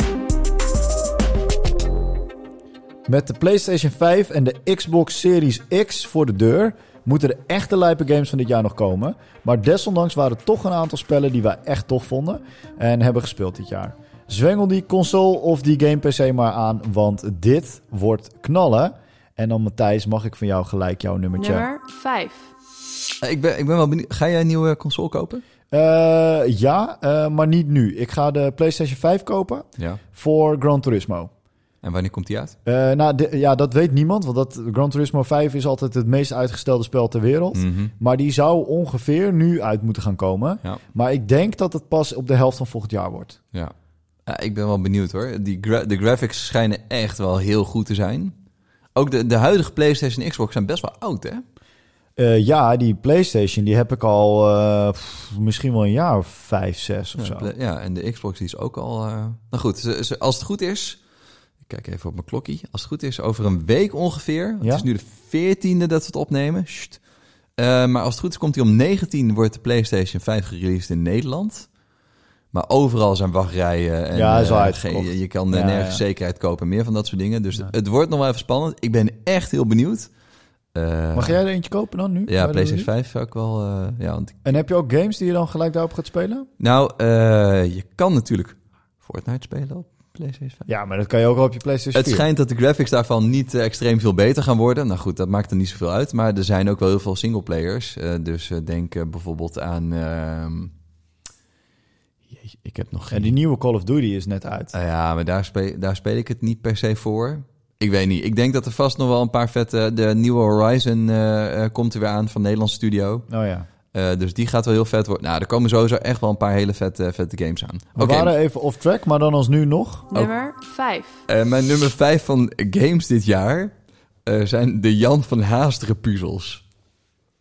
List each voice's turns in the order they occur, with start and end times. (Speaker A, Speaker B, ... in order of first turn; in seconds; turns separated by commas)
Speaker A: 3.1-21.7, Speaker B: 21.3-22.5, Speaker C: 23.2-25.4, Speaker A: 25.7-31.3, Speaker C: 31.8-32.5, Speaker A: 32.6-43.4, Speaker C: 37.5-37.9, Speaker C: 44.3-48.3, Speaker C: 49.0-51.4, Speaker A: 52.2-57.5, Speaker C: 57.2-61.0, Speaker C: 61.6-67.0, Speaker A: 64.6-64.9, Speaker C: 67.6-71.7, Speaker C: 72.5-80.1, Speaker A: 74.1-76.0, Speaker C: 80.8-81.4, Speaker A: 81.1-82.9, Speaker C: 82.3-84.6, Speaker A: 84.5-86.5, Speaker C: 86.6-90.7, Speaker A: 90.7-92.2, Speaker C: 91.9-100.7, Speaker C: 102.3-103.3, Speaker A: 103.1-104.7, Speaker C: 104.7-113.3, Speaker A: 113.3-113.7, Speaker C: 113.9-118.3, Speaker A: 118.0-120.1, Speaker B: 120.1-121.2, Speaker C: 121.3-123.7, Speaker C: 124.3-126.6